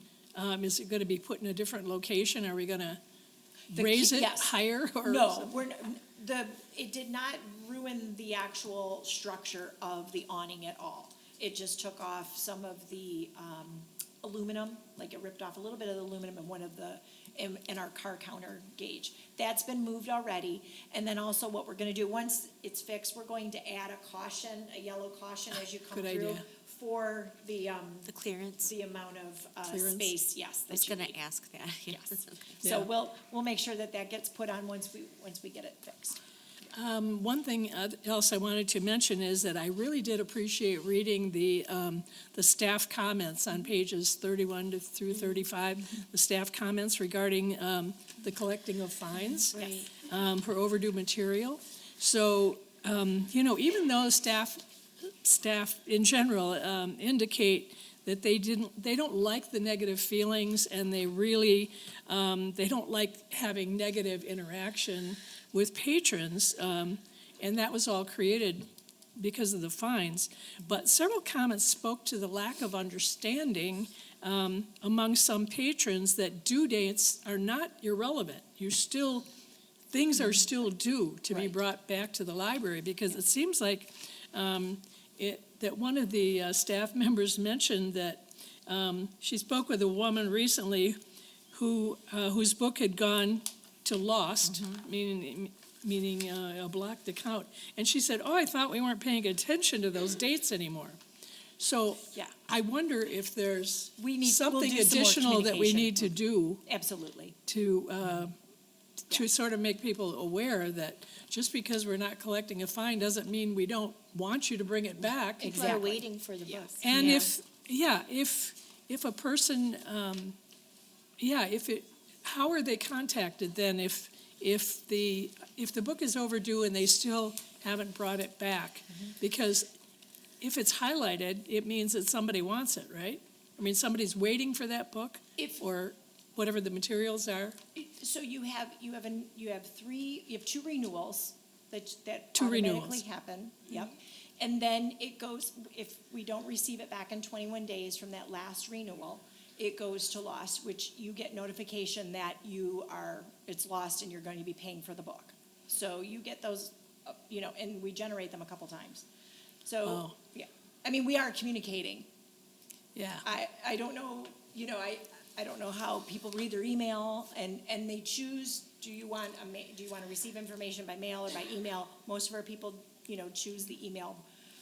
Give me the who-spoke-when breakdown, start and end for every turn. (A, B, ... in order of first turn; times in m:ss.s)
0:00.4-0:03.0 A
0:03.7-0:05.6 A
0:03.7-0:04.5 B
0:05.0-0:31.2 B
0:25.9-0:26.4 A
0:28.1-0:28.7 C
0:29.7-0:30.2 A
0:30.7-0:32.6 C
0:31.9-0:36.2 B
0:32.6-0:32.9 A
0:36.7-1:19.3 A
0:49.3-0:50.0 C
0:49.5-0:49.9 B
1:19.9-1:31.0 A
1:31.5-1:41.0 A
1:41.6-1:46.6 A
1:44.0-1:47.4 B
1:47.5-1:48.4 A
1:49.1-1:55.8 A
1:55.4-1:57.3 B
1:55.4-1:57.3 C
1:56.8-2:00.4 A
2:01.2-2:09.7 A
2:10.4-2:17.6 A
2:17.8-2:39.1 B
2:22.4-2:23.0 A
2:39.6-2:42.1 B
2:39.8-2:40.2 A
2:43.0-2:43.2 A
2:43.2-2:54.2 B